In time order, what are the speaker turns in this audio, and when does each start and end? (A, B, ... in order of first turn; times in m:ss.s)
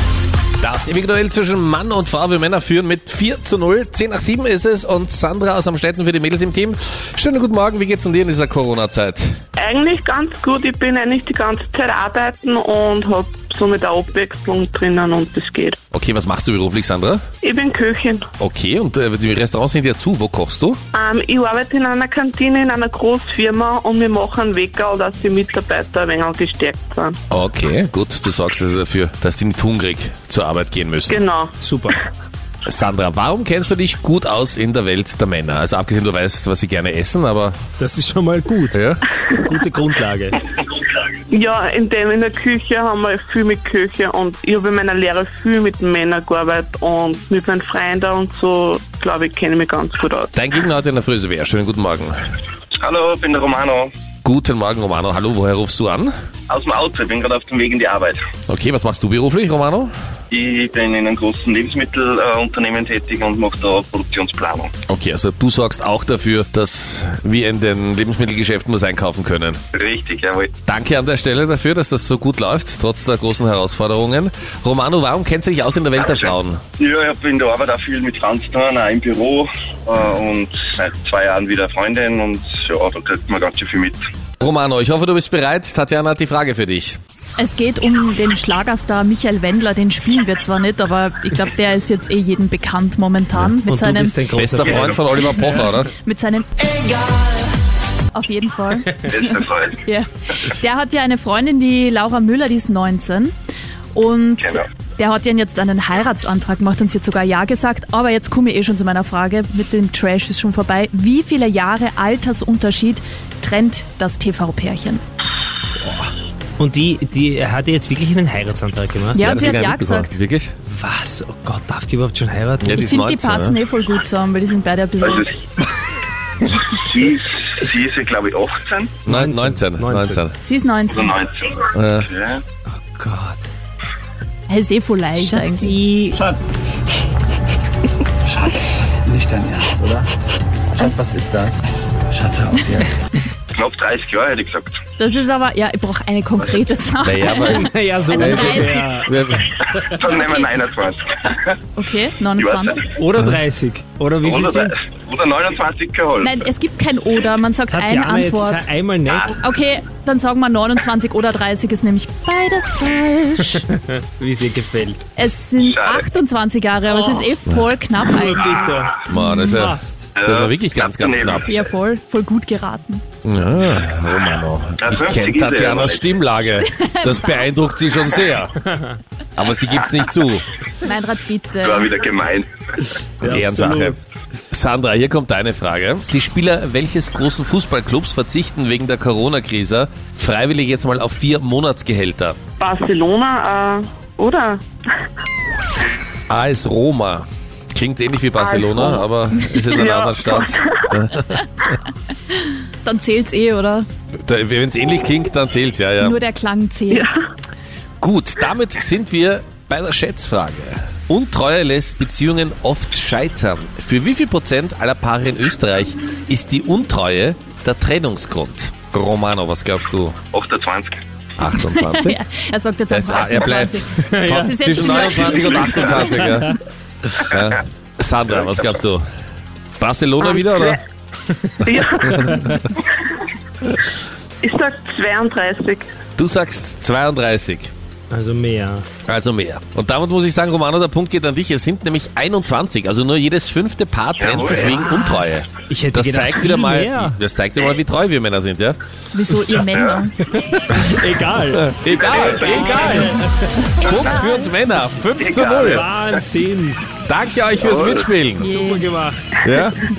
0:00.6-0:09.4 A
0:09.6-0:15.8 B
0:15.9-0:17.2 A
0:17.4-0:18.3 B
0:18.4-0:20.8 A
0:20.9-0:27.2 B
0:27.3-0:31.2 A
0:31.1-0:31.6 B
0:31.6-0:32.0 C
0:32.6-0:37.6 A
0:37.8-0:40.4 C
0:38.7-0:39.0 A
0:41.3-0:50.3 B
0:50.3-0:52.2 A
0:52.7-0:53.9 D
0:54.2-0:56.1 A
0:56.5-0:58.2 D
0:58.5-0:59.9 A
1:00.3-1:04.7 D
1:04.9-1:09.6 A
1:09.7-1:10.5 D
1:10.6-1:16.6 A
1:16.0-1:24.0 D
1:24.4-1:27.0 A
1:27.4-1:34.2 E
1:33.6-1:35.7 C
1:34.4-1:35.9 A
1:36.0-1:37.4 E
1:38.1-1:43.3 E
1:39.0-1:39.8 D
1:43.9-1:55.0 E
1:55.8-1:59.2 C
1:59.1-2:00.1 E
1:59.2-2:00.5 A
2:00.7-2:02.8 C
2:02.6-2:03.6 A
2:02.7-2:05.3 E
2:05.0-2:05.3 D
2:06.4-2:09.0 D
2:09.1-2:10.2 C
2:09.1-2:10.3 A
2:10.4-2:11.2 E
2:10.9-2:12.4 D
2:11.7-2:12.1 A
2:12.7-2:13.4 C
2:14.5-2:15.8 E
2:15.2-2:16.2 C
2:19.1-2:20.1 F
2:20.8-2:21.6 F
2:22.1-2:22.8 F
2:23.5-2:24.7 D
2:25.0-2:29.0 E
2:27.0-2:29.5 A
2:27.4-2:29.1 C
2:29.8-2:31.6 D
2:30.0-2:30.5 E
2:31.8-2:32.8 E
2:32.4-2:32.9 D
2:33.0-2:34.8 C
2:34.2-2:36.4 D
2:36.2-2:38.7 E
2:37.7-2:39.4 C
2:39.3-2:43.7 E
2:43.7-2:45.1 C
2:45.2-2:49.7 E
2:45.6-2:46.1 D
2:48.1-2:50.1 C
2:49.1-2:51.5 A
2:50.2-2:51.5 D
2:51.5-2:53.0 E
2:53.2-2:58.5 A
2:54.8-2:56.1 D
2:56.6-2:57.9 E
2:59.4-3:00.4 A
3:00.8-3:02.0 E
3:01.6-3:02.9 D
3:03.2-3:04.0 C
3:03.2-3:04.0 A
3:04.5-3:12.4 A
3:12.6-3:14.6 B
3:16.3-3:21.5 A
3:18.4-3:19.0 B
3:19.7-3:20.8 B
3:22.8-3:23.9 E
3:24.2-3:26.2 A
3:26.0-3:27.1 E
3:26.9-3:27.2 B
3:28.0-3:40.2 A
3:40.3-3:41.0 D
3:41.4-3:42.2 A
3:41.6-3:46.4 E
3:42.9-3:46.6 A
3:44.0-3:45.2 C
3:47.2-3:49.0 A
3:49.8-3:50.8 A
3:50.2-3:50.8 B
3:51.6-3:52.8 B
3:54.4-3:55.9 B
3:56.2-3:57.7 A
3:58.1-3:58.9 C
3:59.0-4:08.8 A
4:04.2-4:04.8 D
4:04.4-4:07.2 C
4:09.1-4:10.2 E
4:09.7-4:10.0 D
4:10.8-4:13.7 C
4:11.5-4:13.1 A
4:11.9-4:13.0 D
4:13.8-4:14.5 E
4:13.8-4:15.9 A
4:15.2-4:16.0 D
4:15.6-4:16.8 C
4:17.1-4:18.5 A
4:17.6-4:18.1 D
4:18.4-4:18.9 E
4:18.4-4:19.4 C
4:19.4-4:19.8 A